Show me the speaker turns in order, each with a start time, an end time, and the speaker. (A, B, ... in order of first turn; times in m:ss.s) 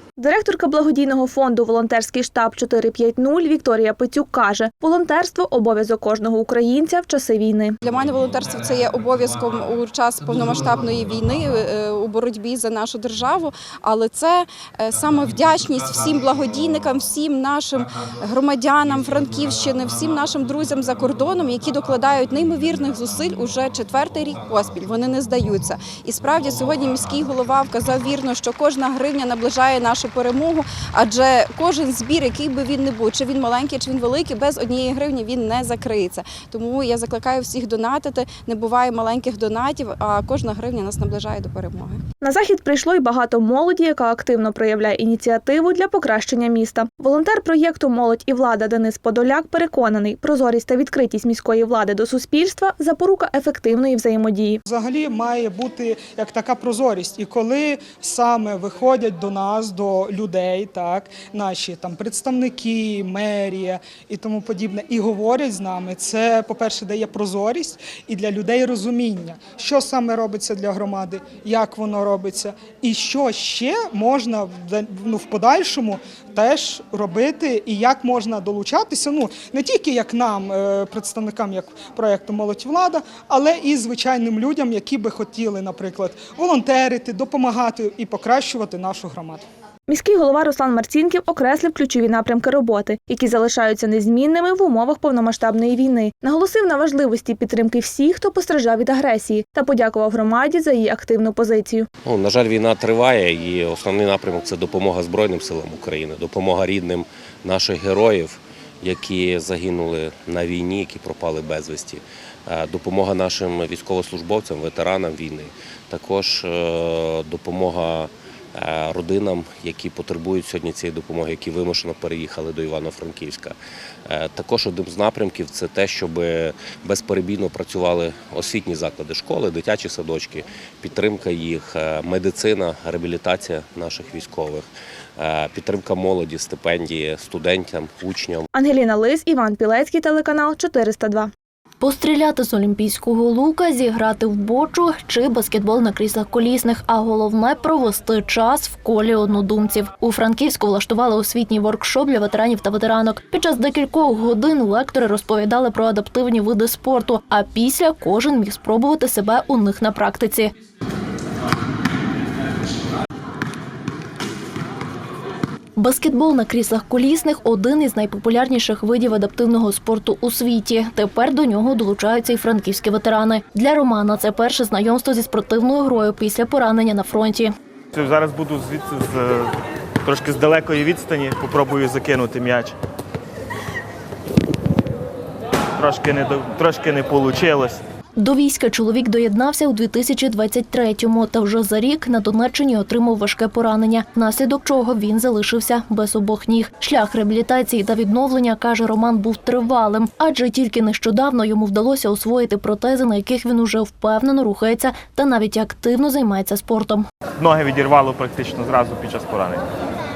0:00.2-0:07.8 A
0:07.8-0:42.0 B
0:42.2-0:54.6 A
0:54.7-1:29.4 C
1:29.9-1:41.9 A
1:42.0-2:03.5 D
2:04.1-2:14.7 D
2:15.2-2:18.5 D
2:18.5-2:21.3 A
2:21.8-2:40.5 E
2:45.8-2:57.5 E
2:57.9-2:59.5 F
3:00.0-3:02.7 F
3:05.8-3:07.8 F
3:08.2-3:27.0 E
3:27.4-3:29.6 F